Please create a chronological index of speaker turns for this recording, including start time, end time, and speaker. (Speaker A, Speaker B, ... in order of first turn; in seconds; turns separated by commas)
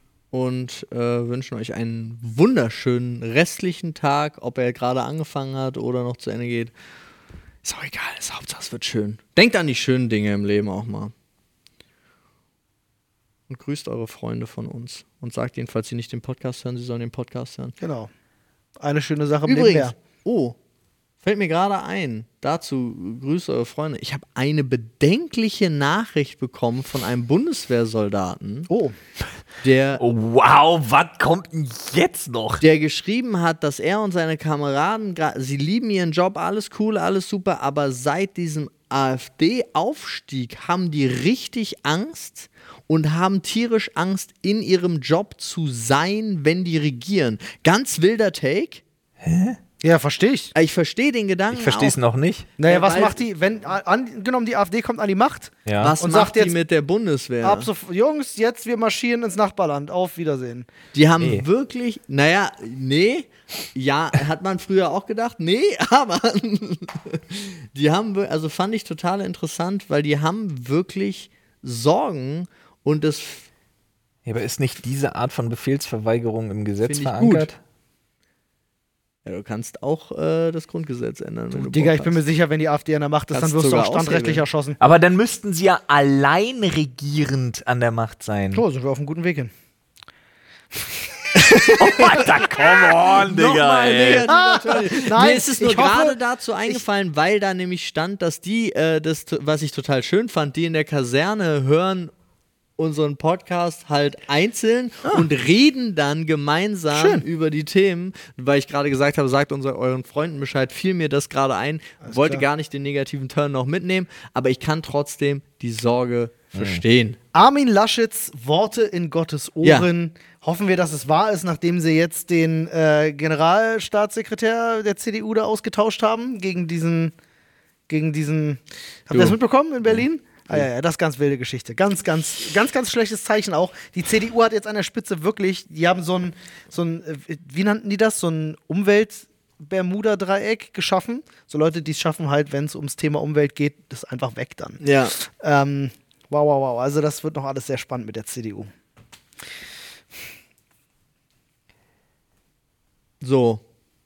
Speaker A: 0.3-6.7, Speaker A: 7.6-11.1, Speaker A: 13.5-17.7, Speaker B: 17.8-18.1, Speaker B: 18.8-19.9, Speaker A: 19.5-20.6, Speaker A: 21.2-28.7, Speaker B: 28.7-28.9, Speaker A: 29.6-30.0, Speaker C: 30.0-32.6, Speaker A: 32.6-48.8, Speaker C: 49.2-49.6, Speaker B: 49.8-50.5, Speaker A: 50.5-52.0, Speaker C: 51.5-52.5, Speaker B: 52.6-56.5, Speaker A: 52.6-53.2, Speaker C: 55.7-56.0, Speaker A: 55.8-57.7, Speaker B: 57.4-60.7, Speaker A: 60.9-73.5, Speaker C: 61.2-61.5, Speaker C: 74.2-77.6, Speaker A: 76.8-77.5, Speaker A: 79.3-82.2, Speaker B: 81.5-84.8, Speaker A: 83.3-84.5, Speaker C: 84.8-88.6, Speaker B: 88.5-89.5, Speaker A: 91.3-92.3, Speaker C: 91.4-94.3, Speaker B: 92.2-93.0, Speaker A: 93.1-102.1, Speaker B: 94.2-96.8, Speaker A: 102.8-117.2, Speaker B: 106.9-107.3, Speaker B: 112.0-112.5, Speaker C: 116.5-116.8, Speaker B: 117.3-127.1, Speaker B: 127.9-148.7, Speaker A: 129.1-129.4, Speaker A: 144.8-145.2, Speaker A: 153.2-153.6